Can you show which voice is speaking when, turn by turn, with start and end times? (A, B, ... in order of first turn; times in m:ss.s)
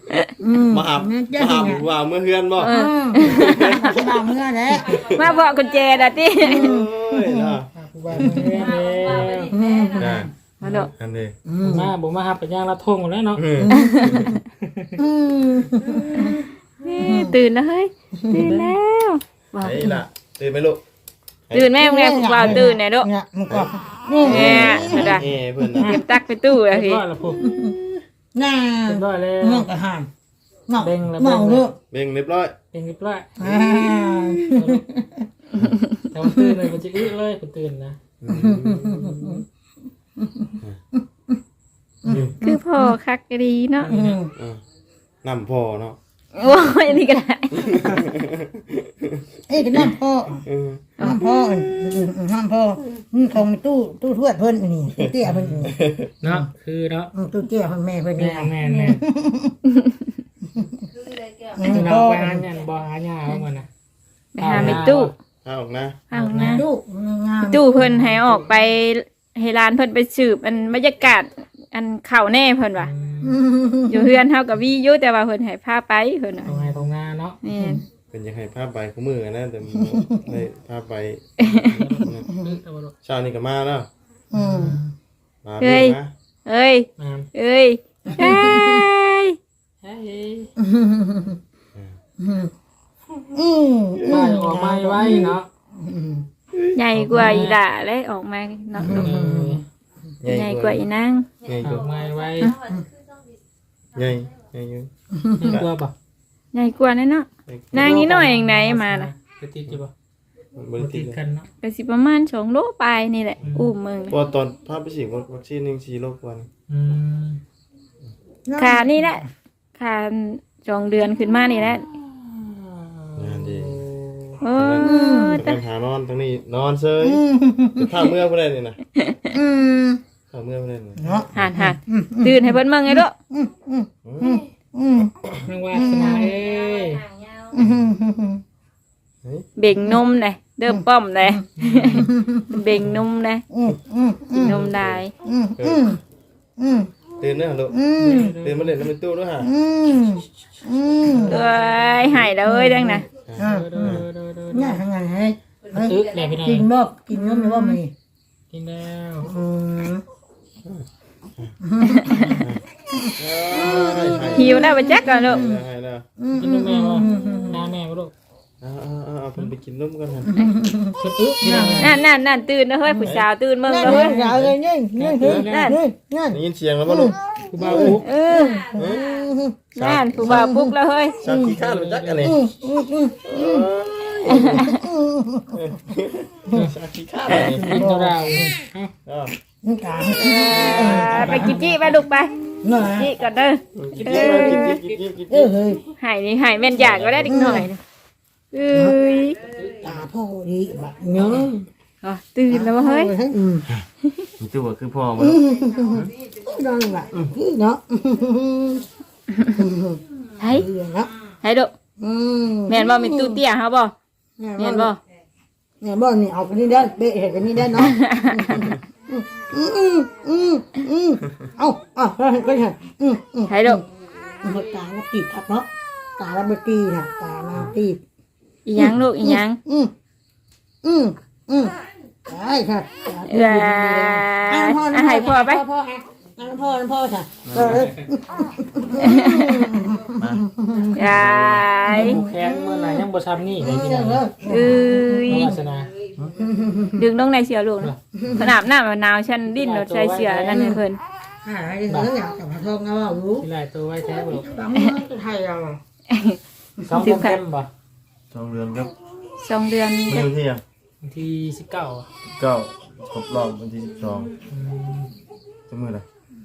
0:00.4-0:01.9 A
0:00.6-0:04.2 B
0:02.6-0:05.0 A
0:02.6-0:03.8 C
0:04.7-0:06.2 D
0:04.9-0:05.3 B
0:05.0-0:06.7 C
0:06.4-0:07.6 A
0:06.4-0:08.4 B
0:07.7-0:09.5 E
0:08.1-0:08.6 A
0:08.4-0:10.2 D
0:09.5-0:10.3 A
0:10.0-0:10.3 B
0:10.6-0:10.9 C
0:10.9-0:11.3 B
0:11.4-0:11.9 A
0:11.6-0:13.4 E
0:13.4-0:13.7 B
0:13.6-0:14.4 A
0:13.7-0:14.4 C
0:14.6-0:15.0 E
0:15.0-0:17.4 A
0:16.0-0:19.9 C
0:18.2-0:18.5 A
0:18.4-0:18.7 E
0:19.6-0:20.8 B
0:21.5-0:23.1 C
0:21.8-0:25.9 A
0:23.5-0:26.0 B
0:24.2-0:25.3 C
0:25.8-0:27.0 C
0:26.7-0:27.4 E
0:27.4-0:27.8 A
0:28.3-0:30.1 A
0:28.9-0:29.7 E
0:30.7-0:31.7 A
0:30.8-0:31.7 E
0:31.9-0:32.6 B
0:32.7-0:33.5 E
0:33.4-0:35.3 A
0:34.4-0:34.8 E
0:36.1-0:38.0 E
0:36.2-0:36.6 A
0:38.2-0:39.4 B
0:38.3-0:39.4 A
0:40.2-0:41.4 A
0:42.0-0:42.9 A
0:42.0-0:42.3 B
0:42.4-0:43.9 C
0:43.8-0:44.2 E
0:43.9-0:44.3 A
0:44.4-0:44.6 B
0:45.2-0:46.0 B
0:46.3-0:48.0 C
0:47.7-0:49.2 B
0:49.5-0:50.4 A
0:50.4-0:51.0 B
0:51.0-0:56.5 A
0:55.2-0:55.7 E
0:55.8-0:56.1 B
0:56.2-0:57.1 E
0:57.1-0:59.6 A
0:58.2-0:59.0 E
0:59.7-1:00.0 C
1:00.5-1:00.8 A
1:01.1-1:01.7 D
1:01.6-1:02.4 A
1:01.6-1:03.7 E
1:04.3-1:05.1 C
1:04.4-1:05.2 E
1:04.5-1:04.9 B
1:05.4-1:06.0 B
1:06.1-1:06.6 E
1:06.1-1:06.6 C
1:06.4-1:08.5 A
1:07.4-1:12.9 C
1:12.8-1:13.4 E
1:13.2-1:14.2 A
1:13.9-1:16.6 C
1:16.4-1:17.4 E
1:17.4-1:17.8 C
1:17.5-1:17.8 A
1:18.1-1:22.3 B
1:19.8-1:20.3 A
1:21.4-1:21.8 C
1:21.7-1:22.9 E
1:23.0-1:23.9 B
1:24.3-1:24.8 A
1:24.3-1:24.9 E
1:25.4-1:26.1 B
1:25.6-1:29.4 C
1:27.0-1:27.3 E
1:28.1-1:28.8 A
1:29.8-1:30.5 E
1:30.6-1:31.4 A
1:32.2-1:32.5 A
1:33.3-1:36.2 A
1:34.1-1:35.5 E
1:36.7-1:39.1 C
1:36.9-1:37.6 E
1:37.2-1:37.4 A
1:38.8-1:39.6 A
1:38.9-1:39.6 E
1:40.2-1:40.8 B
1:40.3-1:41.3 C
1:41.4-1:41.8 B
1:41.6-1:42.5 E
1:43.9-1:44.9 B
1:45.1-1:45.5 A
1:45.4-1:45.9 E
1:46.5-1:49.1 C
1:47.5-1:47.9 B
1:47.7-1:49.9 E
1:50.6-1:51.2 B
1:50.8-1:51.5 E
1:51.6-1:54.2 C
1:53.4-1:53.7 E
1:54.1-1:56.5 B
1:56.7-1:57.4 E
1:58.5-1:59.2 A
1:58.6-1:59.2 C
1:59.8-2:01.8 C
2:02.1-2:04.4 E
2:03.2-2:03.8 B
2:04.4-2:05.6 C
2:04.5-2:07.2 B
2:04.8-2:05.4 A
2:07.0-2:08.0 A
2:07.8-2:08.8 B
2:09.0-2:09.3 C
2:09.3-2:10.0 A
2:10.3-2:11.4 B
2:11.0-2:15.1 A
2:11.3-2:13.1 C
2:14.0-2:14.4 B
2:15.2-2:15.4 B
2:15.4-2:17.0 E
2:15.7-2:16.4 A
2:16.2-2:17.5 D
2:17.5-2:18.4 A
2:17.6-2:17.9 B
2:19.6-2:23.4 C
2:21.6-2:22.1 E
2:22.0-2:22.5 A
2:23.5-2:24.7 A
2:24.3-2:25.1 C
2:24.4-2:25.0 B
2:25.2-2:26.0 A
2:25.6-2:25.9 B
2:26.6-2:26.9 A
2:27.2-2:29.5 B
2:27.7-2:28.4 A
2:27.9-2:28.9 E
2:29.4-2:31.5 A
2:31.0-2:32.2 E
2:31.3-2:33.0 C
2:32.4-2:37.9 A
2:33.3-2:34.0 B
2:33.4-2:34.8 E
2:35.6-2:36.3 D
2:35.8-2:36.7 E
2:37.1-2:37.8 C
2:38.5-2:39.3 E
2:39.2-2:40.0 A
2:41.6-2:45.6 A
2:41.8-2:42.4 C
2:43.2-2:46.0 B
2:44.3-2:45.4 C
2:46.2-2:47.7 A
2:46.3-2:48.1 E
2:48.6-2:50.3 B
2:50.3-2:51.9 A
2:51.0-2:52.0 E
2:51.8-2:54.1 C
2:53.7-2:59.7 A
2:53.9-2:55.8 E
2:55.2-2:55.5 B
2:55.3-2:55.8 C
2:56.3-2:58.0 B
2:57.5-2:58.1 E
2:58.0-2:58.6 C
2:58.4-2:59.1 D
2:58.8-2:59.0 B
2:59.7-3:01.2 C
2:59.8-3:00.5 B
3:00.2-3:01.6 A
3:01.2-3:02.4 B
3:01.5-3:02.4 E
3:02.2-3:03.7 A
3:03.3-3:04.7 B
3:04.3-3:04.8 C
3:04.7-3:05.7 A
3:05.5-3:07.8 B
3:07.3-3:08.9 E
3:07.3-3:08.6 A
3:09.0-3:09.3 B
3:09.6-3:11.8 A
3:10.1-3:14.8 C
3:11.0-3:11.6 E
3:12.6-3:13.1 A
3:13.8-3:15.5 B
3:13.9-3:15.0 E
3:15.3-3:15.8 A
3:16.0-3:17.8 C
3:16.8-3:17.4 B
3:17.3-3:17.7 A
3:18.5-3:19.4 C
3:19.5-3:19.8 E
3:19.8-3:21.6 A
3:22.0-3:23.1 C
3:22.5-3:23.6 A
3:24.4-3:26.1 B
3:25.2-3:28.8 A
3:29.5-3:31.1 A
3:30.4-3:30.6 C
3:31.4-3:31.7 C
3:32.0-3:33.4 A
3:32.7-3:33.9 C
3:34.4-3:34.9 A
3:34.6-3:35.0 C
3:35.8-3:43.8 A
3:37.8-3:38.6 C
3:43.5-3:43.8 C
3:44.4-3:48.0 A
3:48.6-3:49.6 C
3:48.8-3:49.9 A
3:50.8-4:01.1 A
3:53.3-3:55.6 C
3:57.4-3:57.8 B
3:57.8-3:58.0 E
3:59.0-3:59.7 C
4:00.2-4:00.4 B
4:00.9-4:02.2 C
4:01.0-4:01.7 B
4:01.8-4:03.0 A
4:01.9-4:04.2 E
4:03.6-4:05.6 A
4:04.5-4:05.5 C
4:05.3-4:05.9 E
4:06.4-4:07.0 A
4:07.0-4:11.0 C
4:08.2-4:08.5 A
4:08.2-4:08.5 B
4:09.4-4:10.6 E
4:10.5-4:10.8 A
4:11.4-4:13.5 A
4:13.4-4:14.4 E
4:14.1-4:15.8 A
4:16.1-4:16.4 C
4:16.9-4:17.7 E
4:16.9-4:17.4 C
4:18.3-4:18.9 B
4:19.4-4:20.3 C
4:20.0-4:20.6 B
4:21.0-4:22.1 E
4:22.4-4:24.4 B
4:24.4-4:25.1 E
4:25.7-4:26.0 B